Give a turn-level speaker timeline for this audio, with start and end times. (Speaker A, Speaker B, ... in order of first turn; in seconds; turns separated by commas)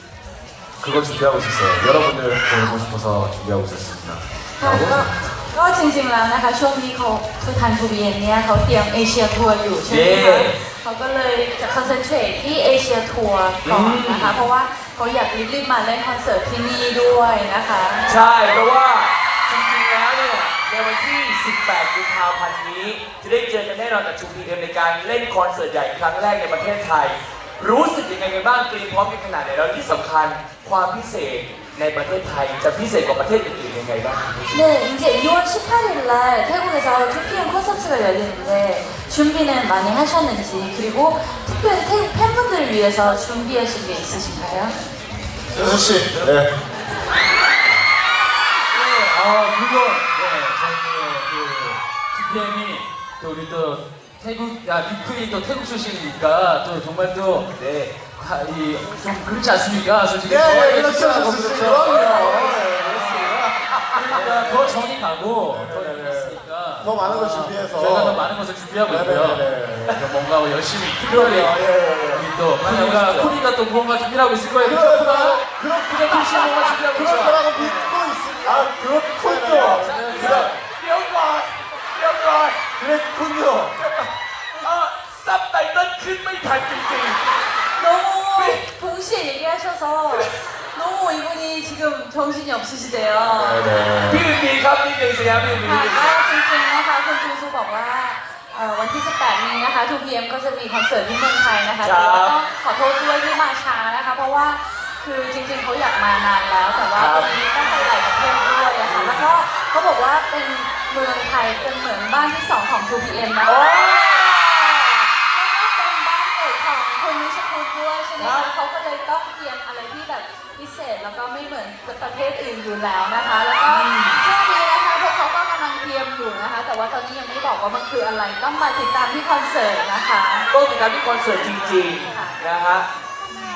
Speaker A: 0.8-5.1, Speaker B: 2.2-2.7, Speaker C: 4.6-18.1, Speaker D: 9.8-10.6, Speaker D: 13.6-14.4, Speaker D: 18.0-34.7, Speaker C: 34.5-44.8, Speaker B: 45.5-46.5, Speaker A: 45.7-46.3, Speaker E: 48.7-57.5, Speaker D: 57.5-58.0, Speaker E: 58.0-63.3, Speaker B: 60.2-63.4, Speaker D: 61.7-63.1, Speaker E: 63.9-71.6, Speaker B: 64.1-64.7, Speaker B: 65.5-68.3, Speaker B: 68.8-70.0, Speaker B: 71.0-72.3, Speaker E: 72.1-78.0, Speaker D: 72.6-73.3, Speaker B: 74.6-80.5, Speaker D: 76.0-77.1, Speaker A: 77.5-78.5, Speaker E: 79.2-80.5, Speaker D: 79.4-82.7, Speaker B: 82.8-83.8, Speaker D: 83.8-87.2, Speaker C: 87.8-93.7, Speaker D: 88.3-88.6, Speaker B: 93.3-94.2, Speaker D: 94.1-96.2, Speaker C: 95.6-113.7, Speaker D: 101.8-102.3, Speaker D: 106.9-107.3, Speaker D: 108.8-109.3, Speaker D: 113.4-115.0, Speaker C: 115.3-130.5, Speaker D: 118.2-118.5, Speaker D: 123.6-124.3, Speaker D: 130.5-132.9, Speaker C: 131.0-132.3